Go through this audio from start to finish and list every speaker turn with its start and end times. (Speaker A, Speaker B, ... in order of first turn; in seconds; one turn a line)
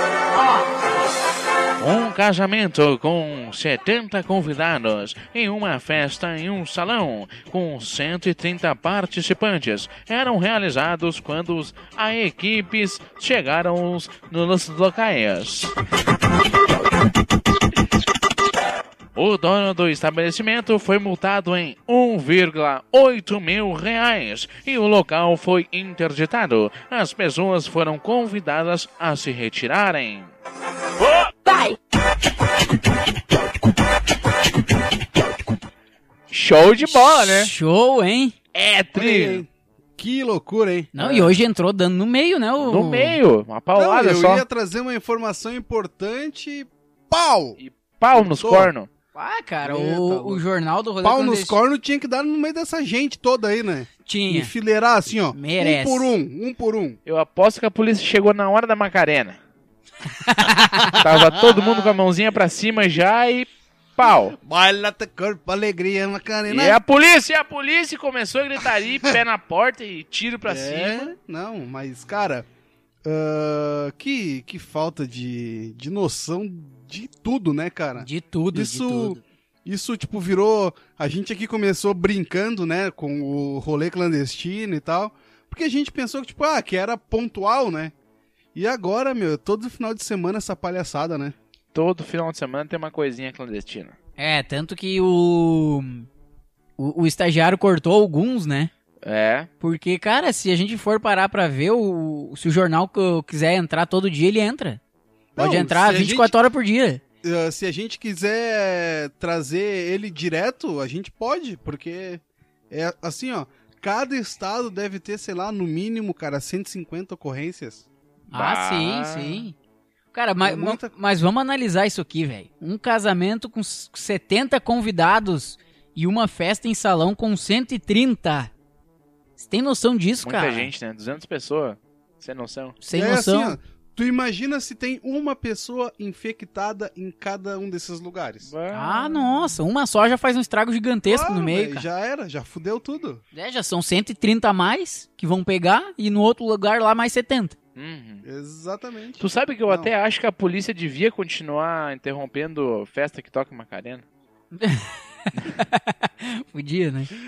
Speaker A: 1.8-15.7
Speaker A: 19.1-30.3
Speaker A: 36.3-37.5
Speaker B: 36.8-38.4
Speaker A: 38.5-39.5
Speaker C: 38.9-40.9
Speaker B: 41.0-43.2
Speaker A: 41.0-41.4
Speaker A: 42.6-44.4
Speaker C: 43.8-47.6
Speaker A: 47.6-48.9
Speaker C: 48.1-48.7
Speaker B: 49.1-51.6
Speaker C: 49.6-50.4
Speaker C: 51.0-57.0
Speaker B: 54.1-54.5
Speaker B: 55.3-56.1
Speaker A: 57.1-59.4
Speaker B: 60.1-61.0
Speaker A: 60.9-64.4
Speaker C: 61.0-62.0
Speaker C: 64.4-66.8
Speaker A: 66.5-71.1
Speaker C: 70.5-72.5
Speaker C: 73.0-87.9
Speaker B: 78.0-79.2
Speaker C: 88.5-91.3
Speaker A: 91.7-94.0
Speaker B: 94.2-96.1
Speaker B: 96.8-98.7
Speaker A: 99.0-99.5
Speaker B: 99.6-104.8
Speaker C: 105.3-106.3
Speaker B: 105.4-107.0
Speaker C: 107.2-117.9
Speaker A: 118.3-119.5
Speaker B: 118.3-119.5
Speaker B: 120.1-128.5
Speaker C: 120.4-120.9
Speaker B: 129.4-130.7
Speaker A: 130.2-132.8
Speaker B: 132.8-133.6
Speaker C: 132.9-138.5
Speaker A: 138.5-139.5
Speaker B: 138.7-141.9
Speaker C: 141.1-143.2
Speaker B: 143.3-147.6
Speaker A: 147.8-148.2
Speaker C: 148.2-149.9
Speaker A: 149.2-154.1
Speaker B: 154.5-157.1